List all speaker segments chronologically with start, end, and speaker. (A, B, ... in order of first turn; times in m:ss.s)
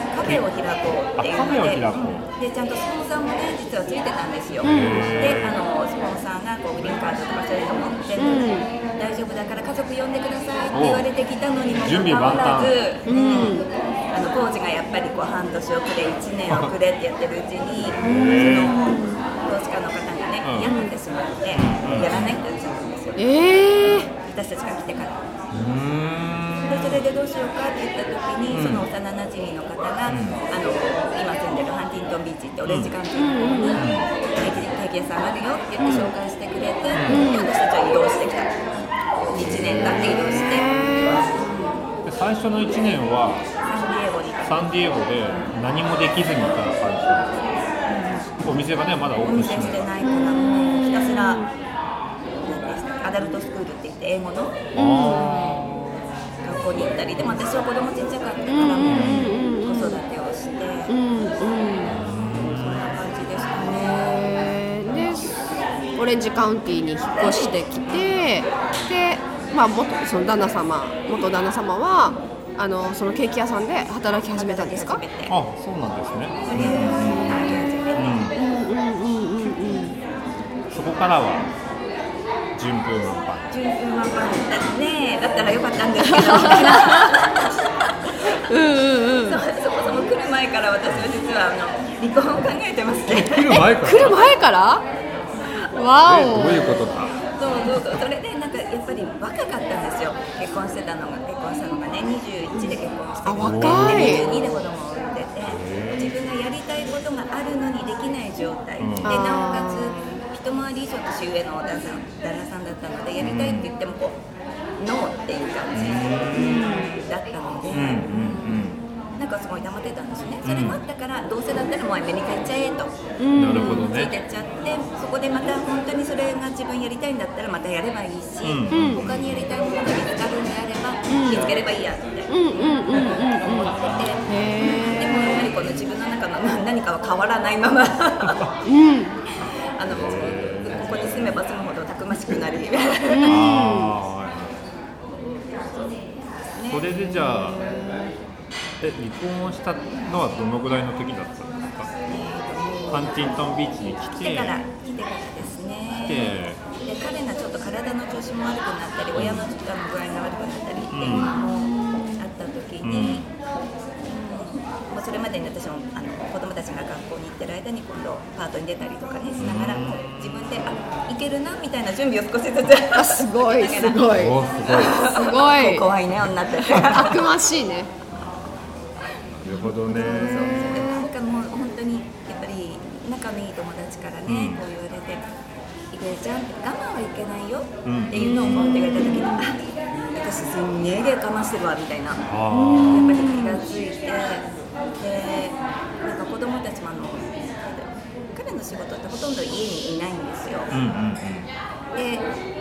0:00.1-0:23.2 A
0:01.2-0:02.2 B
0:04.6-0:05.6 B
0:04.6-0:05.2 C
0:08.2-0:08.7 C
0:10.7-0:11.0 B
0:11.8-0:12.7 B
0:13.0-0:13.7 C
0:17.8-0:18.8 B
0:18.0-0:19.2 C
0:20.4-0:20.7 B
0:20.6-0:20.9 C
0:21.5-0:22.4 B
0:23.2-0:24.1 C
0:24.1-0:25.2 A
0:25.5-0:27.0 B
0:26.6-0:38.5 A
0:28.5-0:28.9 B
0:30.1-0:30.4 B
0:32.6-0:33.0 B
0:33.2-0:33.8 C
0:33.8-0:34.1 B
0:36.9-0:37.3 B
0:37.1-0:37.5 C
0:39.2-0:40.8 A
0:39.3-0:40.2 B
0:39.9-0:41.3 C
0:41.3-0:41.8 A
0:42.0-0:43.5 B
0:43.6-0:44.7 A
0:44.4-0:47.5 B
0:47.9-0:48.3 A
0:48.3-0:49.9 B
0:49.2-0:51.5 A
0:50.0-0:51.5 C
0:52.4-0:55.7 A
0:54.7-0:55.3 C
0:54.8-0:55.8 B
0:56.4-1:00.9 A
0:56.6-0:56.9 B
0:58.5-1:00.0 C
0:58.9-0:59.4 B
1:00.9-1:01.9 C
1:01.8-1:02.8 B
1:01.9-1:04.2 A
1:03.6-1:05.4 C
1:06.0-1:15.0 C
1:07.9-1:08.2 A
1:14.3-1:15.4 A
1:15.3-1:18.4 B
1:16.4-1:18.3 A
1:18.3-1:20.0 C
1:20.7-1:21.5 B
1:22.5-1:23.6 B
1:23.5-1:27.6 A
1:26.1-1:27.1 C
1:28.4-1:29.4 C
1:29.2-1:33.7 A
1:33.1-1:34.2 B
1:33.7-1:34.8 C
1:35.6-1:36.9 C
1:36.0-1:37.3 B
1:37.4-1:54.2 A
1:42.5-1:44.4 C
1:43.4-1:44.2 B
1:45.4-1:46.1 B
1:48.8-1:49.2 B
1:49.0-1:50.2 C
1:53.2-1:53.7 B
1:54.8-2:03.0 A
1:55.7-1:56.7 B
1:56.3-1:56.9 C
1:57.7-1:58.8 B
2:00.4-2:00.8 B
2:03.2-2:03.9 C
2:03.4-2:04.1 B
2:03.5-2:18.5 A
2:08.4-2:09.5 B
2:08.7-2:09.0 C
2:11.1-2:11.5 C
2:12.3-2:13.7 C
2:14.3-2:15.5 C
2:18.2-2:18.5 B
2:18.6-2:19.2 C
2:19.4-2:23.5 A
2:19.9-2:21.2 B
2:23.1-2:23.9 C
2:23.2-2:24.6 B
2:25.6-2:26.0 A
2:26.5-2:27.4 A
2:26.7-2:27.8 B
2:27.4-2:28.1 C
2:28.8-2:31.9 B
2:32.1-2:43.3 A
2:32.9-2:34.6 B
2:36.0-2:36.6 B
2:39.1-2:39.5 B
2:40.9-2:41.4 B
2:41.1-2:42.2 C
2:42.8-2:43.3 B
2:44.0-2:57.3 A
2:49.4-2:50.4 B
2:52.9-2:55.9 C
2:54.1-2:55.0 B
2:56.7-2:57.9 C
2:59.4-3:00.9 B
2:59.5-3:01.1 C
2:59.5-3:05.2 A
3:04.3-3:04.6 B
3:05.9-3:12.3 A
3:07.8-3:09.0 B
3:08.5-3:09.5 C
3:12.2-3:13.3 B
3:12.5-3:13.6 C
3:12.9-3:20.7 A
3:20.7-3:21.5 B
3:21.9-3:22.3 A